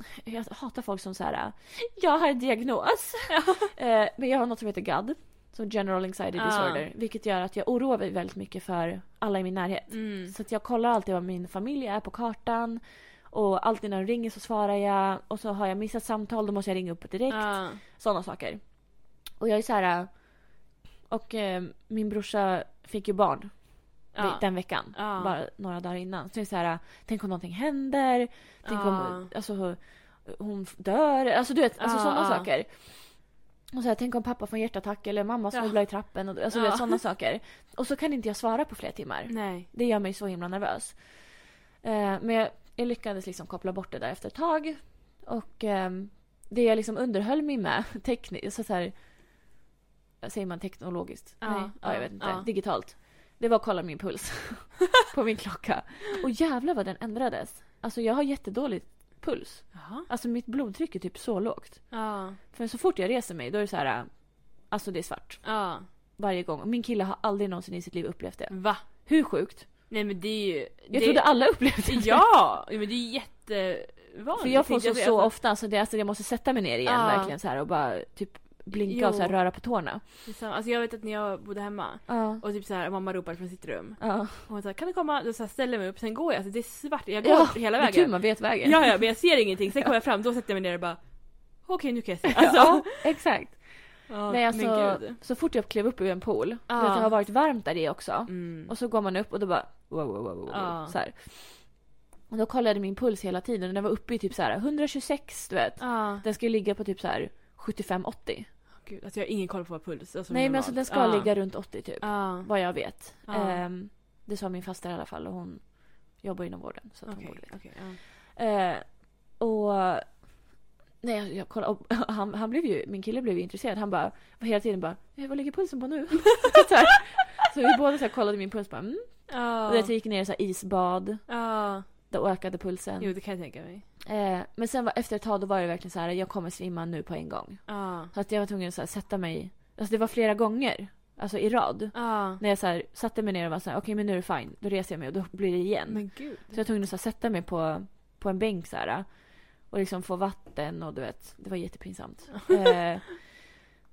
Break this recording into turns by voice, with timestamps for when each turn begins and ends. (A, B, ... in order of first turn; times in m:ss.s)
0:00.2-0:49.6 A
0:03.3-0:03.7 B
0:06.4-0:06.9 B
0:09.9-0:10.4 B
0:17.3-0:17.8 B
0:24.1-0:25.4 B
0:28.6-0:29.3 B
0:31.8-0:32.5 B
0:35.5-0:37.0 B
0:39.3-0:39.7 B
0:50.2-1:09.7 A
0:51.4-0:52.5 B
0:59.7-1:00.1 B
1:01.9-1:02.4 B
1:05.4-1:05.9 B
1:08.5-1:08.9 B
1:09.9-1:15.4 B
1:10.9-1:12.3 A
1:14.4-1:20.2 A
1:16.8-1:17.4 B
1:18.7-1:19.6 B
1:20.2-1:33.2 B
1:22.1-1:22.4 A
1:24.0-1:24.5 A
1:27.2-1:29.3 A
1:32.3-1:48.5 A
1:34.1-1:35.2 B
1:36.7-1:37.2 B
1:38.3-1:38.7 B
1:40.5-1:41.0 B
1:45.8-1:46.2 B
1:48.7-1:53.6 B
1:50.3-2:00.5 A
1:57.1-1:58.0 B
2:01.0-2:13.5 A
2:09.3-2:09.9 B
2:11.3-2:11.9 B
2:13.0-2:13.9 B
2:14.0-2:33.5 A
2:17.7-2:18.1 B
2:21.9-2:22.4 B
2:25.9-2:26.6 B